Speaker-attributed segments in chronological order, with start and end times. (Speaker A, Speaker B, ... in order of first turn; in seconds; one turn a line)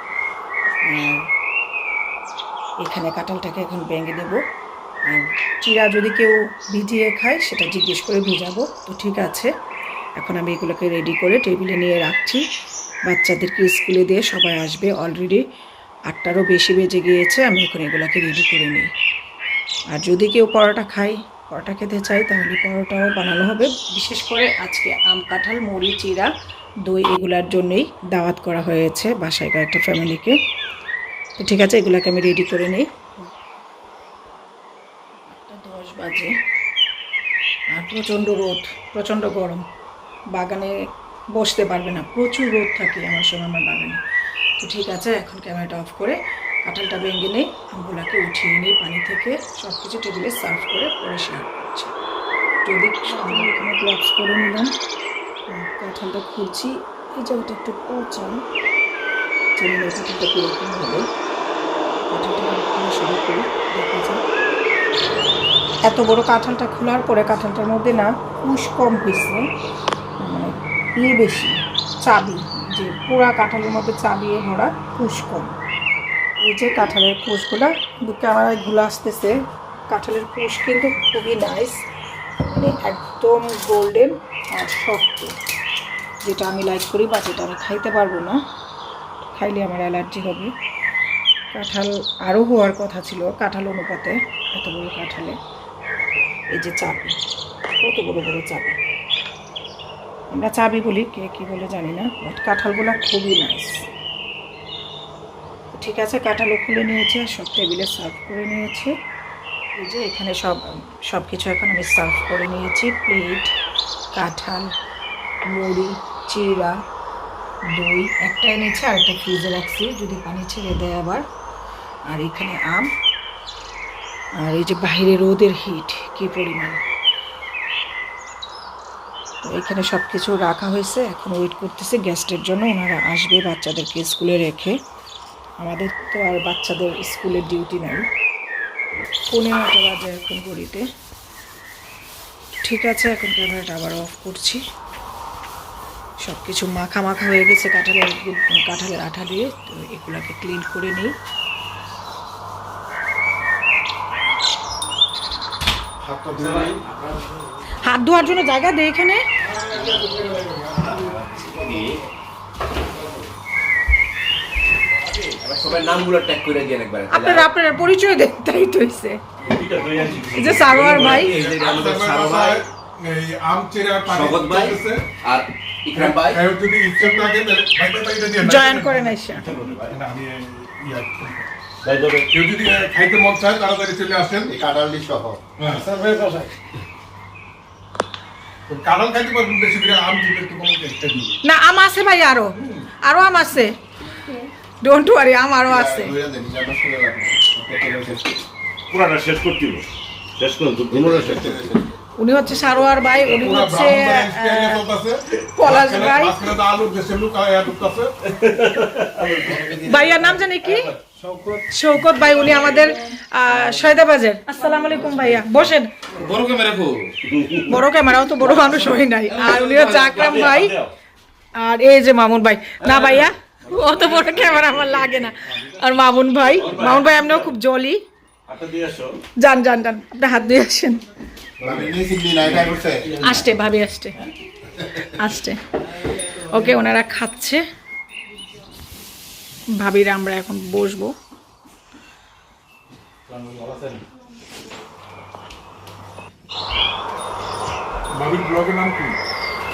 Speaker A: 0.8-1.3
Speaker A: 2.8-4.4
Speaker A: 5.1-9.5
Speaker A: 10.2-12.4
Speaker A: 13.1-15.4
Speaker A: 16.1-18.9
Speaker A: 19.9-26.3
Speaker A: 26.9-30.4
Speaker A: 31.4-32.9
Speaker A: 35.3-36.3
Speaker A: 37.7-39.6
Speaker A: 40.3-40.8
Speaker A: 41.3-44.0
Speaker A: 44.6-51.9
Speaker A: 52.6-54.7
Speaker A: 55.5-58.4
Speaker A: 59.6-61.1
Speaker A: 62.1-64.2
Speaker A: 65.8-69.5
Speaker A: 70.2-75.6
Speaker A: 76.4-79.4
Speaker A: 79.9-81.8
Speaker A: 82.4-85.4
Speaker A: 86.2-88.4
Speaker A: 89.2-90.5
Speaker A: 91.5-95.4
Speaker A: 96.5-97.2
Speaker A: 97.8-98.8
Speaker A: 100.3-103.8
Speaker A: 105.7-108.9
Speaker A: 109.8-113.5
Speaker A: 114.1-114.7
Speaker A: 115.5-116.8
Speaker A: 117.7-121.2
Speaker A: 122.1-122.9
Speaker A: 124.4-126.8
Speaker A: 129.4-134.8
Speaker A: 135.6-138.1
Speaker A: 139.3-140.9
Speaker A: 142.6-144.6
Speaker A: 146.2-151.1
Speaker B: 156.0-156.8
Speaker C: 156.5-157.2
Speaker A: 157.8-159.2
Speaker D: 159.4-161.9
Speaker C: 161.0-161.4
Speaker E: 165.6-166.9
Speaker D: 165.8-166.2
Speaker A: 167.1-169.2
Speaker C: 169.4-171.3
Speaker A: 170.3-171.4
Speaker D: 170.6-175.1
Speaker E: 171.3-172.6
Speaker E: 174.2-174.7
Speaker E: 175.3-176.3
Speaker D: 175.8-179.2
Speaker A: 178.4-179.5
Speaker C: 179.3-180.0
Speaker D: 179.9-181.5
Speaker C: 181.8-182.3
Speaker D: 182.3-184.5
Speaker B: 184.5-185.7
Speaker D: 185.6-185.8
Speaker C: 185.7-186.5
Speaker D: 188.7-191.4
Speaker A: 191.4-193.8
Speaker A: 194.8-196.1
Speaker B: 195.7-198.4
Speaker C: 198.9-201.8
Speaker B: 200.9-201.9
Speaker A: 202.2-204.8
Speaker D: 203.2-208.2
Speaker A: 205.5-206.6
Speaker C: 208.3-209.8
Speaker B: 209.3-210.2
Speaker A: 209.8-210.9
Speaker C: 210.5-211.6
Speaker A: 211.7-215.9
Speaker C: 214.9-215.3
Speaker C: 216.1-216.6
Speaker D: 216.4-217.1
Speaker C: 217.1-217.8
Speaker A: 217.6-220.7
Speaker C: 218.4-220.9
Speaker A: 221.6-228.0
Speaker C: 222.8-225.1
Speaker C: 226.5-227.5
Speaker C: 228.5-229.2
Speaker A: 229.4-231.0
Speaker C: 231.6-233.5
Speaker B: 231.6-233.2
Speaker A: 233.2-234.2
Speaker A: 234.9-235.6
Speaker A: 236.2-237.6
Speaker A: 239.8-241.1
Speaker C: 243.3-244.0
Speaker D: 248.1-249.2